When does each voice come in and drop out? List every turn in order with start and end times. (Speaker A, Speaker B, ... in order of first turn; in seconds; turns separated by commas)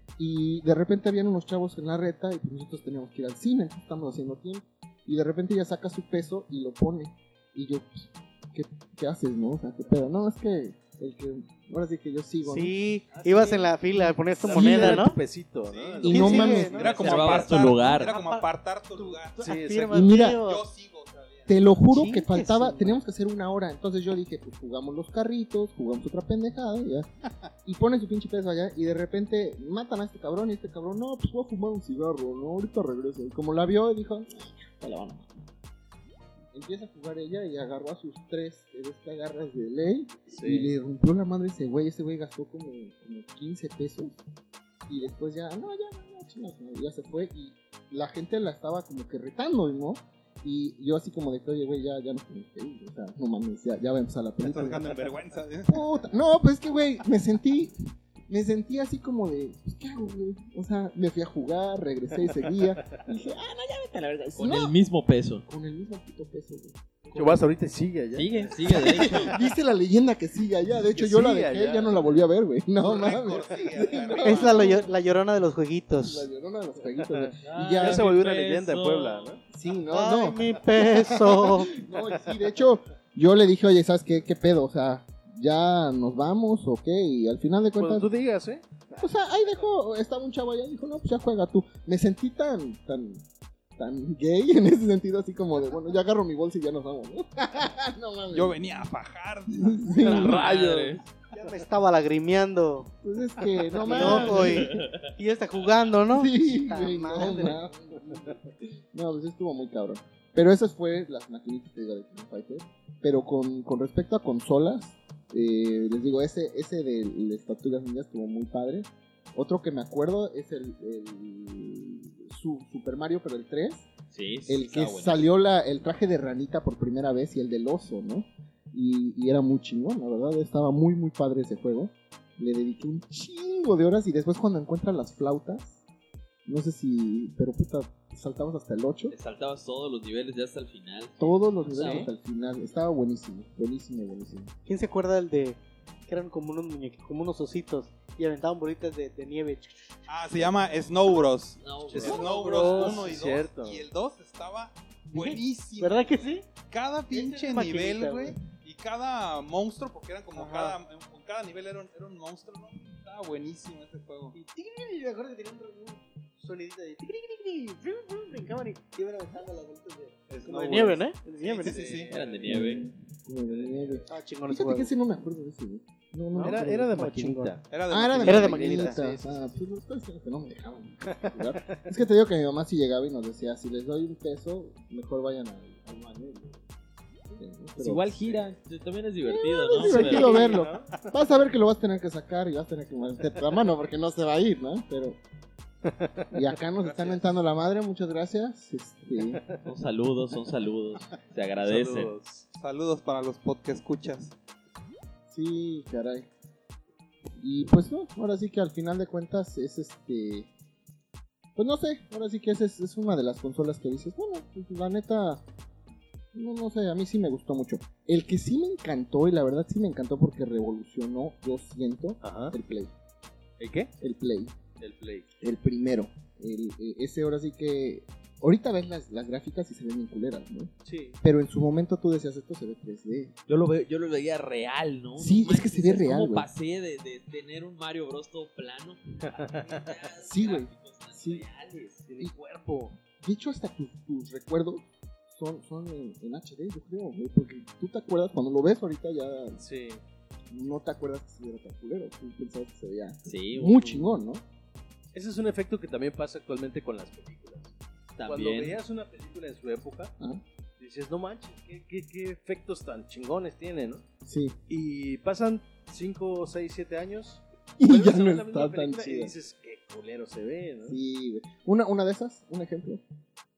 Speaker A: 0.2-12.7, Speaker B: 12.4-15.2, Speaker C: 13.1-13.8, Speaker C: 14.3-17.4, Speaker A: 14.4-15.1, Speaker D: 15.7-21.5, Speaker A: 16.0-16.8, Speaker B: 16.1-20.6, Speaker E: 17.0-18.1, Speaker C: 19.4-20.1, Speaker A: 19.9-20.4, Speaker A: 21.5-27.1, Speaker B: 21.9-23.0, Speaker A: 27.6-35.4, Speaker A: 36.5-44.2, Speaker C: 40.3-40.7, Speaker A: 44.9-55.0, Speaker D: 54.4-55.9, Speaker A: 55.7-57.8, Speaker A: 58.3-64.8, Speaker C: 62.3-63.0, Speaker E: 64.3-65.4, Speaker A: 65.5-67.4, Speaker C: 67.1-69.2, Speaker E: 68.1-69.4, Speaker A: 68.6-74.9, Speaker C: 70.8-72.2, Speaker D: 72.8-74.8, Speaker B: 74.2-76.3, Speaker A: 76.0-78.1, Speaker C: 77.0-79.4, Speaker E: 77.4-79.4, Speaker A: 79.5-88.1, Speaker B: 79.9-81.8, Speaker C: 87.8-89.1, Speaker A: 89.0-93.2, Speaker A: 93.8-98.6, Speaker D: 98.3-100.3, Speaker A: 99.5-100.5, Speaker C: 100.0-101.0, Speaker E: 100.0-101.0, Speaker B: 101.3-102.9, Speaker A: 103.0-104.8, Speaker B: 103.8-107.6, Speaker C: 103.8-104.3, Speaker E: 103.9-105.7, Speaker A: 106.1-123.9, Speaker E: 124.1-125.3, Speaker A: 124.5-135.8, Speaker A: 136.4-139.1, Speaker E: 139.1-142.1, Speaker A: 141.2-144.5, Speaker C: 141.7-142.1, Speaker B: 144.7-151.2, Speaker D: 150.1-164.3, Speaker E: 151.6-152.3, Speaker C: 151.9-153.8, Speaker B: 152.1-153.1, Speaker B: 155.1-156.4, Speaker B: 157.1-158.4, Speaker B: 160.3-160.8, Speaker B: 164.3-172.1, Speaker D: 170.3-172.1, Speaker C: 171.7-172.7, Speaker E: 172.1-172.9, Speaker A: 172.4-177.0, Speaker C: 173.5-174.1, Speaker B: 174.1-174.9, Speaker B: 176.3-177.5, Speaker C: 176.4-179.6, Speaker D: 177.7-178.6, Speaker A: 177.9-186.6, Speaker B: 178.2-179.0, Speaker C: 181.1-181.9, Speaker A: 187.3-188.4, Speaker E: 187.8-190.5, Speaker A: 189.2-195.2, Speaker C: 189.9-191.1, Speaker B: 189.9-190.6, Speaker C: 195.8-196.3, Speaker A: 196.3-199.4, Speaker D: 196.8-197.3, Speaker C: 199.3-199.6, Speaker E: 199.6-202.1, Speaker C: 201.6-202.5, Speaker D: 202.5-204.3, Speaker A: 205.3-206.3, Speaker A: 207.4-210.5, Speaker A: 211.6-215.4, Speaker A: 216.3-222.9, Speaker C: 222.2-222.6, Speaker C: 223.6-223.9, Speaker A: 224.0-224.6, Speaker C: 224.8-225.3, Speaker A: 225.4-233.3, Speaker C: 230.8-231.2, Speaker E: 233.5-242.0, Speaker A: 235.2-236.5, Speaker C: 239.3-239.9, Speaker A: 240.2-241.4, Speaker C: 242.0-243.0, Speaker A: 243.0-249.6, Speaker C: 249.6-250.0, Speaker A: 250.5-254.4, Speaker E: 253.2-254.1, Speaker C: 255.1-260.1, Speaker E: 258.2-258.8, Speaker C: 260.8-264.0, Speaker A: 264.2-264.6, Speaker C: 264.7-271.0, Speaker A: 267.8-269.3, Speaker A: 270.8-273.0